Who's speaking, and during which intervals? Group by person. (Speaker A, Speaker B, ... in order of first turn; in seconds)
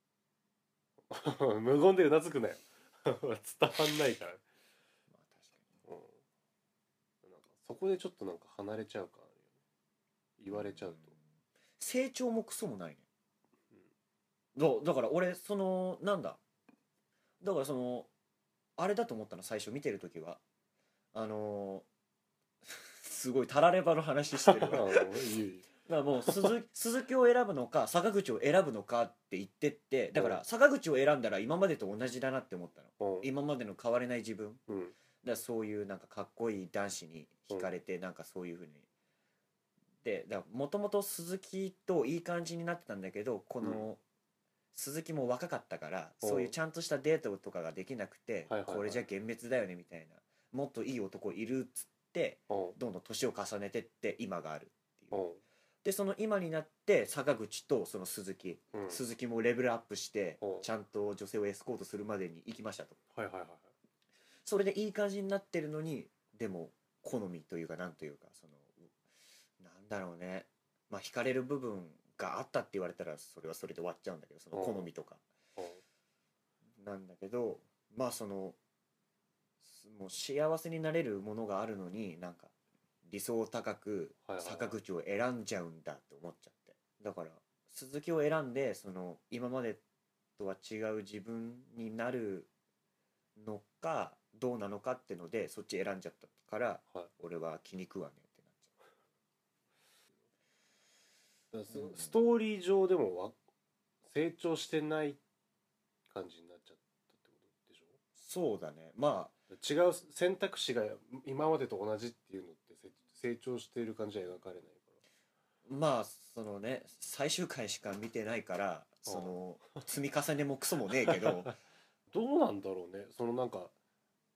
Speaker A: 1.1-4.4, 5.8-6.2, 7.2-9.5, 10.4-11.1, 24.4-25.7, 30.1-30.4, 33.0-33.3, 34.7-34.9, 43.6-43.9, 46.2-46.5, 48.5-49.0, 52.5-52.8, 55.1-55.4, 58.7-59.0, 60.4-60.7, 63.1-63.7, 74.5-74.9, 75.5-75.8, 84.2-84.8, 101.5-103.4, 104.0-105.2, 106.1-108.0, 109.5-115.0, 119.0-119.4, 120.9-121.5, 122.1-123.7
Speaker B: 5.1-5.8, 10.5-11.2, 11.8-13.1, 14.6-16.4, 17.4-18.1, 18.8-20.4, 21.1-21.9, 22.6-25.2, 25.9-34.6, 35.2-38.9, 40.0-44.0, 44.7-55.2, 55.8-63.0, 64.4-69.0, 69.6-75.2, 76.8-78.6, 79.6-82.5, 83.0-89.8, 90.4-92.5, 93.3-98.8, 101.7-102.2, 108.1-109.3, 115.7-121.5